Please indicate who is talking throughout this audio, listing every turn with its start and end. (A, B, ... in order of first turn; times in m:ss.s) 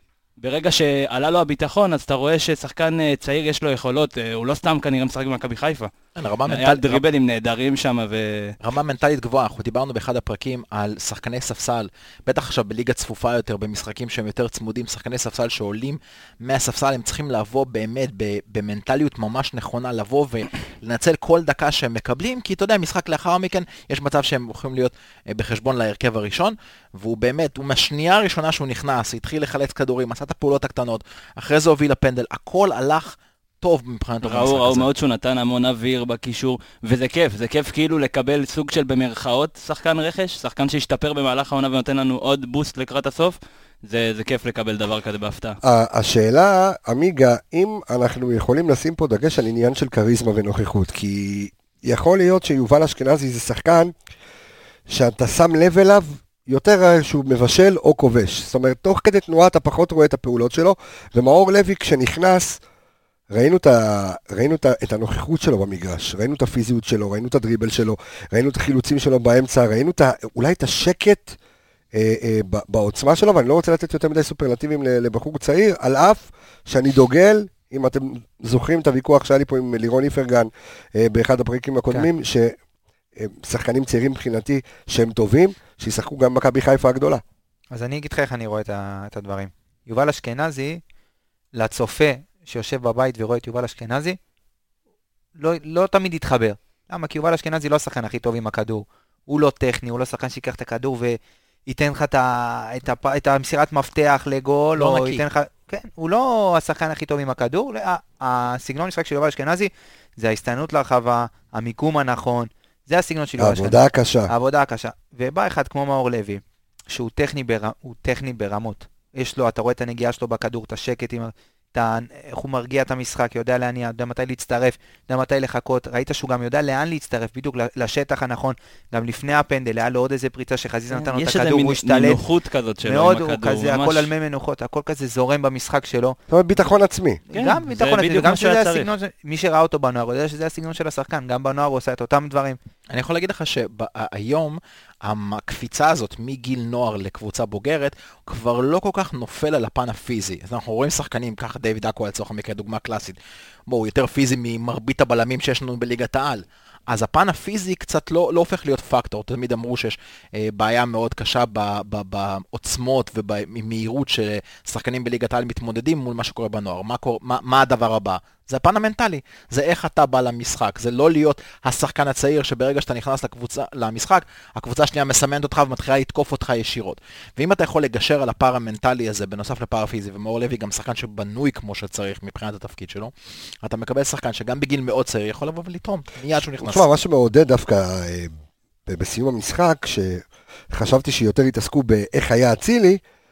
0:00.4-0:05.9 A
0:06.2-0:07.0 B
0:06.5-0:08.6 A
0:08.6-0:34.9 B
0:34.2-0:45.6 A
0:45.6-0:53.9 C
0:54.9-1:02.6 C
1:03.3-1:11.4 C
1:11.9-1:22.6 C
1:23.2-1:27.2 C
1:27.7-1:30.8 D
1:31.6-1:34.2 D
1:35.4-2:12.2 D
1:44.8-1:45.2 B
1:53.4-1:54.3 C
2:10.9-2:14.1 A
2:12.8-2:16.2 D
2:16.3-2:17.2 C
2:17.3-2:22.6 D
2:17.4-2:18.9 A
2:22.9-3:06.9 B
3:06.6-3:08.3 C
3:08.9-3:13.0 C